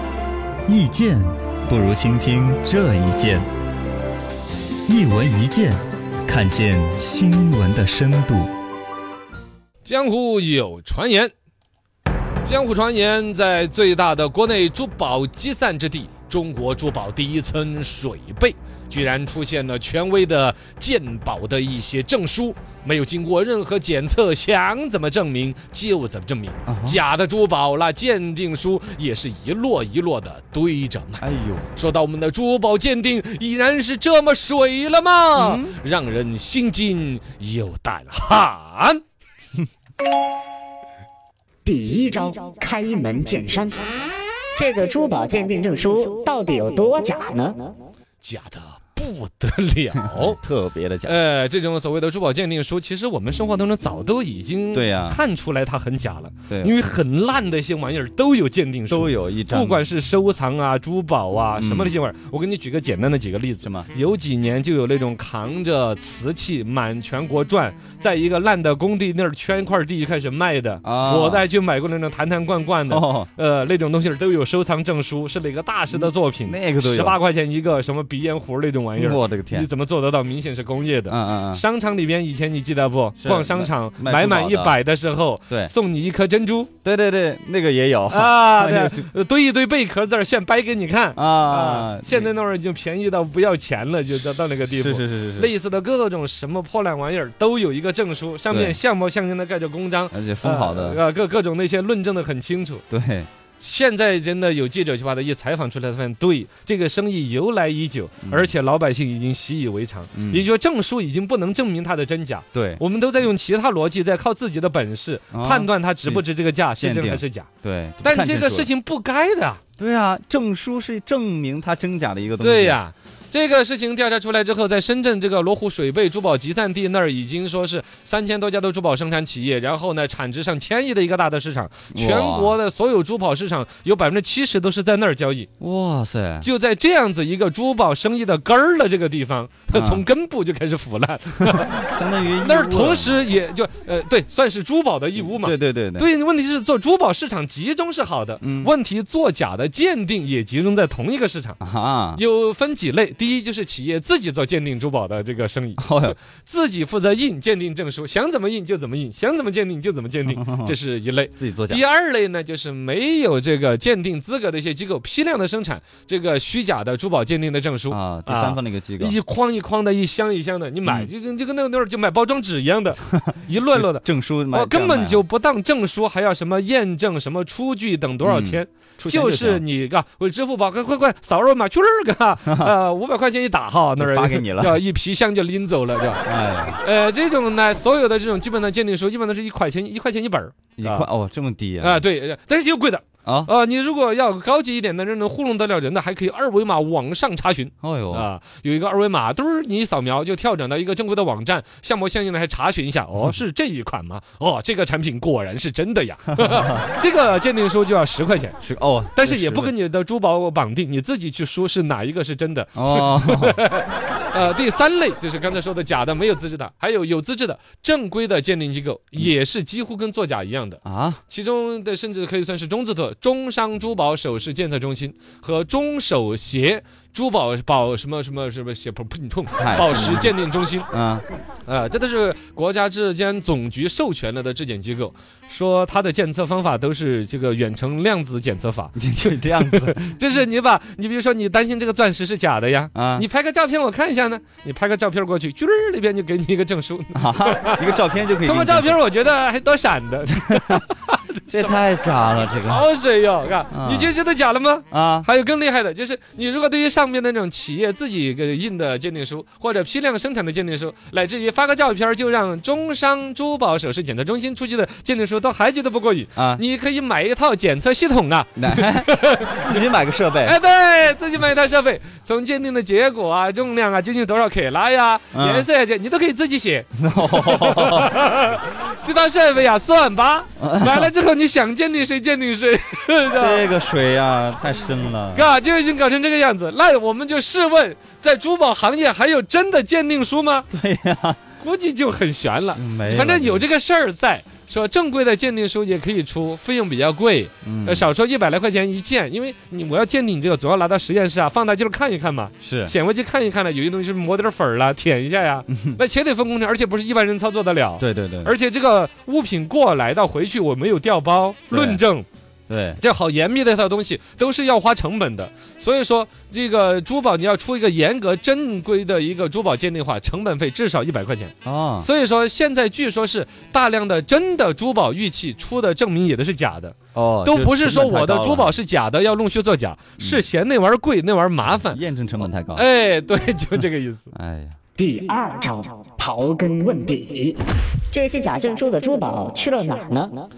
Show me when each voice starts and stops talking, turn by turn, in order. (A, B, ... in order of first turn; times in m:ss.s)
0:00.7-0:03.4 A
0:04.9-0:08.5 A
0:09.8-0:11.3 B
0:12.4-0:39.0 B
0:26.7-0:27.0 A
0:31.2-0:31.7 A
0:35.4-0:35.8 A
0:41.6-0:43.8 C
0:44.6-0:47.7 C
0:48.2-0:50.4 B
0:50.0-0:51.2 A
0:51.0-1:26.7 B
0:54.7-0:55.2 A
0:56.5-0:56.8 A
0:58.9-0:59.9 A
1:01.6-1:02.0 A
1:03.6-1:03.9 A
1:10.8-1:11.4 A
1:12.9-1:13.3 A
1:15.9-1:17.2 A
1:19.0-1:19.7 A
1:21.1-1:21.6 A
1:23.2-1:24.8 A
1:26.8-1:29.1 A
1:28.1-1:42.8 B
1:31.2-1:32.3 A
1:34.7-1:35.5 A
1:38.5-1:38.8 A
1:40.1-1:41.0 A
1:42.9-1:43.3 A
1:43.6-1:57.5 B
1:48.2-1:48.5 A
1:50.1-1:50.5 A
1:52.5-1:52.8 A
1:55.3-1:56.2 A
1:56.8-1:58.7 A
1:58.0-1:59.6 B
1:59.8-2:02.8 A
2:02.4-2:15.5 B
2:11.9-2:12.6 A
2:15.6-2:16.5 A
2:16.4-2:21.8 B
2:19.7-2:20.1 A
2:21.5-2:23.2 A
2:22.4-2:31.6 B
2:25.2-2:26.1 A
2:28.4-2:28.7 A
2:31.6-2:32.2 A
2:32.2-3:06.3 B
2:35.8-2:36.2 A
2:40.2-2:40.8 A
2:41.4-2:41.8 A
2:47.9-2:49.2 A
2:50.8-2:51.1 A
2:53.1-2:55.2 A
2:58.2-2:59.6 A
3:02.4-3:02.7 A
3:04.0-3:04.8 A
3:06.2-3:06.8 A
3:06.8-3:11.1 B
3:10.8-3:12.0 A
3:11.8-3:28.6 B
3:13.2-3:13.5 A
3:17.8-3:18.3 A
3:26.4-3:26.9 A
3:28.6-3:29.7 A
3:29.2-3:50.9 B
3:32.8-3:33.6 A
3:40.8-3:41.2 A
3:49.5-3:50.4 A
3:50.9-3:51.2 A
3:51.6-4:11.8 B
3:59.0-4:00.2 A
4:02.9-4:03.3 A
4:07.1-4:09.0 A
4:10.3-4:10.8 A
4:11.5-4:12.8 A
4:12.6-4:29.8 B
4:13.7-4:14.1 A
4:14.9-4:15.3 A
4:26.4-4:26.6 A
4:28.6-4:30.6 A
4:30.4-4:43.7 B
4:35.3-4:35.7 A
4:37.0-4:38.2 A
4:40.6-4:41.1 A
4:43.3-4:45.5 A
4:45.3-4:50.7 B
4:50.7-4:51.4 A
4:51.6-5:12.3 B
4:52.7-4:53.7 A
4:57.6-4:58.1 A
5:02.6-5:02.9 A
5:05.7-5:06.0 A
5:08.0-5:08.5 A
5:11.7-5:12.0 A
5:12.7-5:13.0 A
5:13.0-5:32.0 B
5:21.6-5:22.1 A
5:27.1-5:28.7 A
5:30.2-5:30.5 A
5:31.8-5:32.9 A
5:32.7-5:34.3 B
5:34.3-5:34.8 A
5:35.0-5:40.5 C